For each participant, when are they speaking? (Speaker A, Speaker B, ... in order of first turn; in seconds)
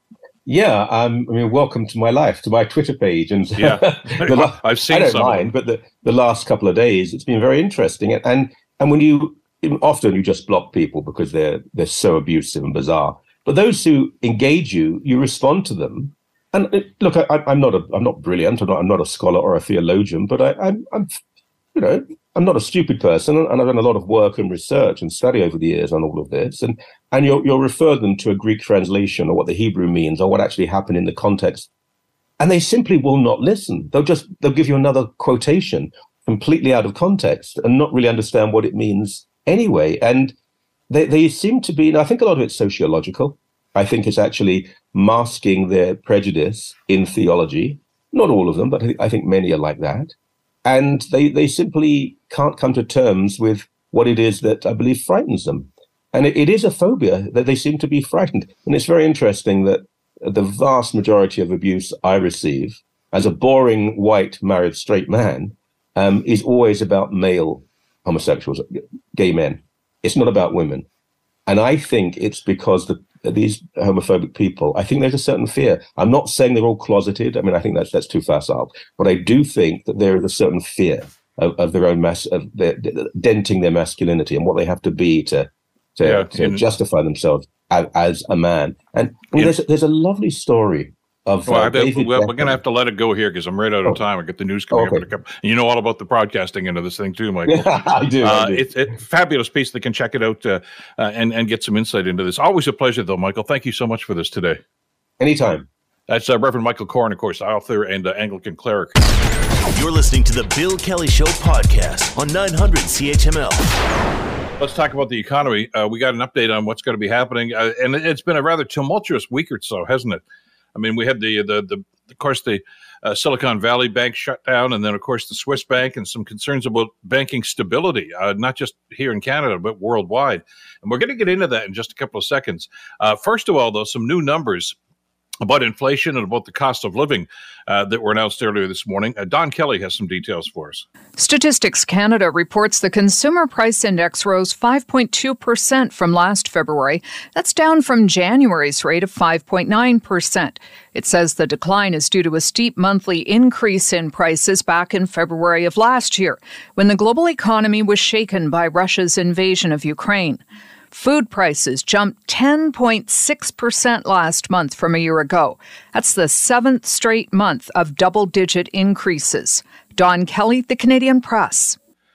Speaker A: 0.5-21.2, 21.7-31.7, 32.4-40.3, 40.9-50.1, 50.6-70.8, 71.5-92.6, 94.7-95.0, 97.5-98.7, 105.2-105.7
Speaker B: 3.5-5.5, 86.0-86.6, 91.5-104.6, 106.1-109.0, 114.6-120.2, 120.7-134.8, 135.4-140.8
Speaker C: 109.7-113.8
Speaker D: 141.2-171.8